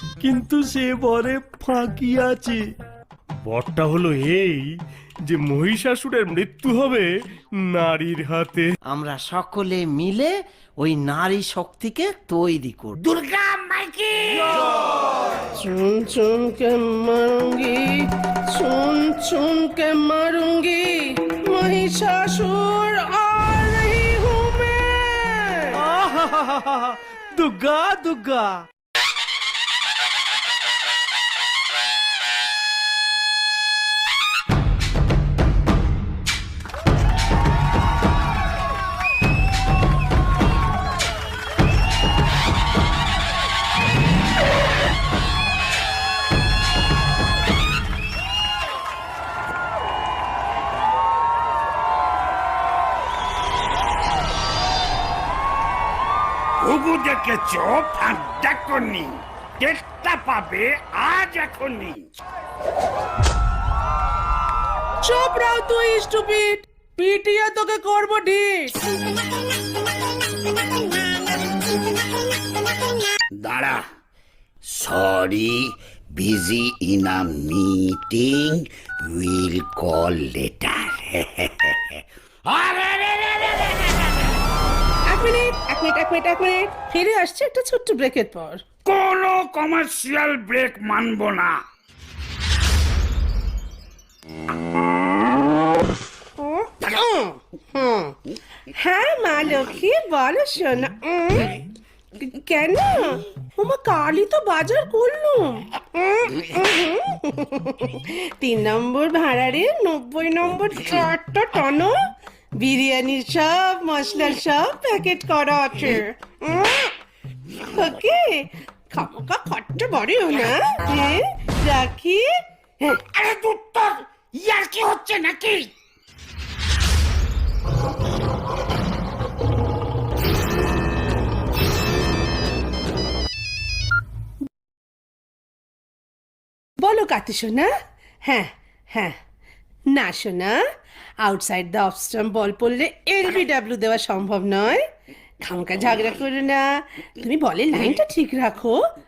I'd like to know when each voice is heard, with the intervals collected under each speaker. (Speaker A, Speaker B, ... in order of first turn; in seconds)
Speaker A: 0.2-2.6, 3.5-4.7, 5.3-7.1, 7.7-8.7, 25.8-28.6
Speaker B: 8.9-13.0
Speaker C: 13.0-14.7, 56.6-62.0, 73.3-73.8, 74.7-84.3, 88.8-91.5, 122.8-125.7
Speaker D: 15.6-25.8, 65.0-68.8, 85.1-88.6, 96.4-98.2, 98.7-101.6, 102.2-112.0, 112.6-116.9, 117.6-122.3, 136.8-139.2, 139.9-140.6, 141.2-144.8, 145.4-148.8